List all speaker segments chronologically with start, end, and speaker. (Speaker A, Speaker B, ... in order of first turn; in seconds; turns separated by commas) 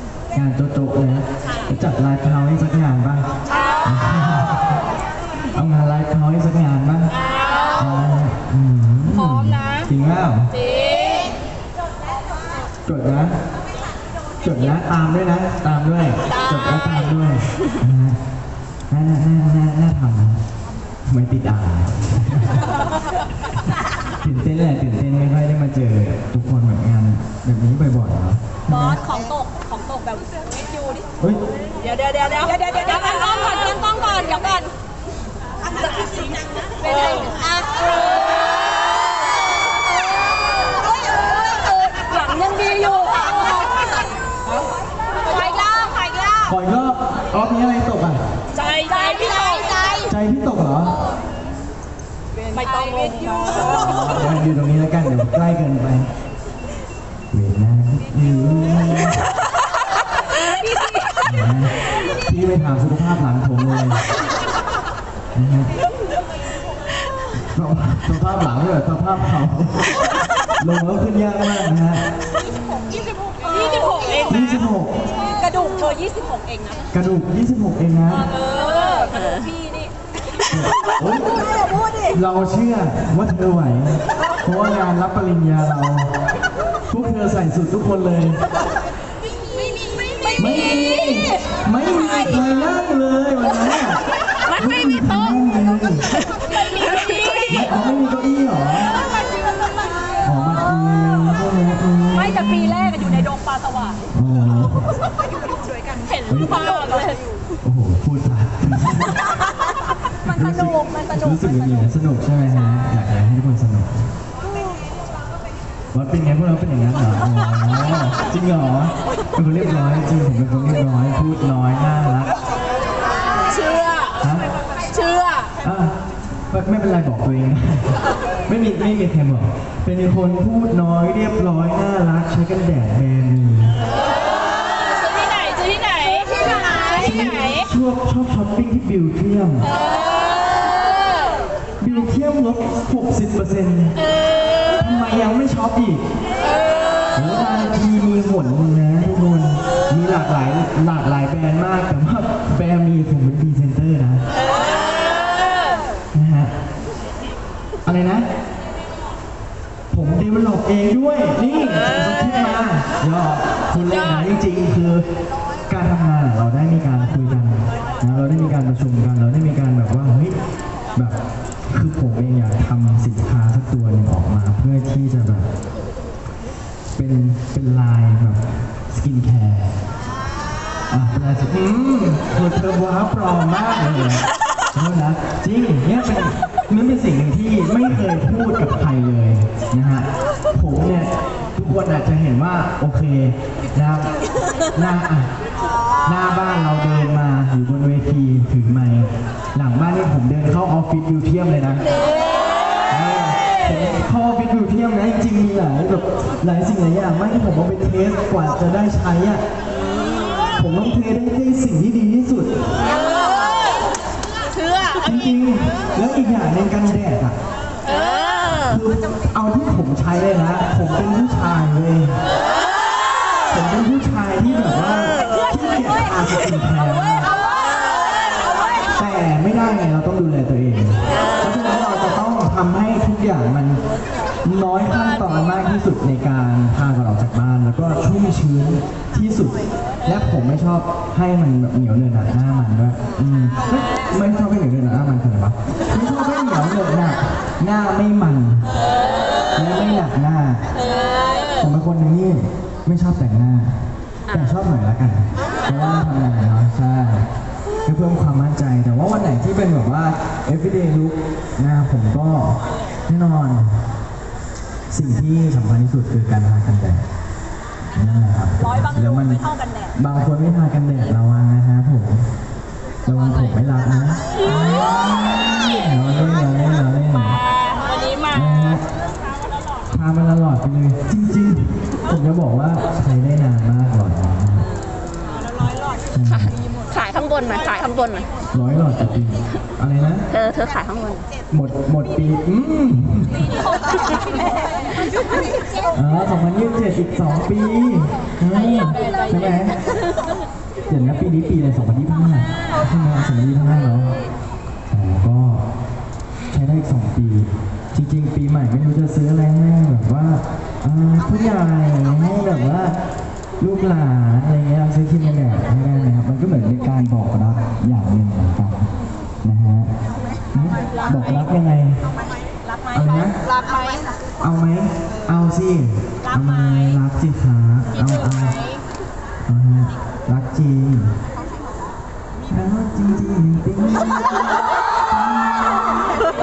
Speaker A: 0.3-3.3, Speaker B: 3.5-3.8, Speaker A: 3.8-4.8, Speaker A: 5.5-7.1, Speaker B: 7.2-7.8, Speaker A: 7.7-10.5, Speaker B: 9.2-9.9, Speaker B: 10.5-11.3, Speaker A: 12.9-13.4, Speaker A: 14.4-18.2, Speaker A: 18.9-20.4, Speaker A: 21.1-22.7, Speaker A: 24.2-29.0, Speaker B: 28.7-31.0, Speaker B: 31.8-34.7, Speaker B: 36.8-38.2, Speaker B: 41.6-43.4, Speaker B: 45.3-46.2, Speaker A: 46.5-48.2, Speaker B: 48.5-49.8, Speaker A: 50.1-51.0, Speaker B: 52.5-53.8, Speaker A: 53.8-56.1, Speaker A: 57.3-59.3, Speaker A: 61.2-61.7, Speaker A: 62.2-64.0, Speaker A: 65.3-65.7, Speaker A: 67.5-69.9, Speaker A: 70.6-72.1, Speaker B: 73.5-74.3, Speaker A: 74.3-75.0, Speaker B: 75.4-76.8, Speaker A: 76.9-78.3, Speaker B: 78.3-79.9, Speaker C: 79.1-79.5, Speaker A: 80.5-81.4, Speaker A: 82.1-86.1, Speaker A: 86.9-88.4, Speaker A: 90.4-94.0, Speaker A: 94.5-96.0, Speaker B: 96.5-97.5, Speaker A: 97.5-98.9, Speaker A: 100.2-103.3, Speaker B: 103.7-103.9, Speaker A: 104.1-105.0, Speaker B: 106.1-107.2, Speaker A: 106.3-106.5, Speaker A: 107.6-109.2, Speaker A: 110.2-114.2, Speaker A: 115.9-122.4, Speaker B: 123.5-124.1, Speaker A: 124.2-124.5, Speaker B: 124.9-125.5, Speaker A: 125.6-125.9, Speaker A: 126.5-127.9, Speaker A: 128.5-133.8, Speaker B: 134.7-136.5, Speaker A: 136.9-139.7, Speaker A: 141.8-143.9, Speaker A: 144.8-146.0, Speaker A: 147.1-154.2, Speaker A: 156.1-156.5, Speaker A: 157.8-158.3, Speaker A: 159.9-165.0, Speaker A: 165.7-170.3, Speaker A: 171.7-175.5, Speaker A: 176.9-179.7, Speaker A: 180.9-184.2, Speaker A: 184.7-194.1, Speaker A: 194.7-195.3, Speaker A: 196.0-201.8, Speaker A: 202.9-209.4, Speaker A: 210.6-212.8, Speaker B: 214.5-215.0, Speaker A: 215.0-217.4, Speaker B: 217.9-218.2, Speaker A: 218.6-222.2, Speaker A: 223.5-227.3, Speaker A: 229.0-233.8, Speaker A: 234.4-248.7, Speaker A: 249.6-250.6, Speaker B: 251.0-251.4, Speaker A: 251.6-257.3, Speaker C: 254.3-254.6, Speaker A: 257.8-263.8, Speaker A: 264.9-267.0, Speaker A: 267.9-269.4, Speaker B: 269.3-269.8, Speaker A: 269.9-272.3, Speaker A: 273.1-277.4, Speaker B: 277.5-278.3, Speaker A: 278.3-278.8, Speaker A: 279.9-284.7, Speaker A: 286.1-286.6, Speaker C: 286.9-288.3, Speaker A: 288.5-290.2, Speaker C: 290.3-291.2, Speaker A: 291.5-293.5, Speaker A: 295.9-299.7, Speaker A: 300.9-304.1, Speaker A: 304.9-305.6, Speaker A: 306.5-312.9, Speaker A: 313.6-318.9, Speaker A: 319.4-319.9, Speaker A: 320.5-322.0, Speaker A: 322.9-323.3, Speaker B: 323.6-324.0, Speaker A: 324.4-328.6, Speaker A: 329.4-331.1, Speaker A: 332.5-336.1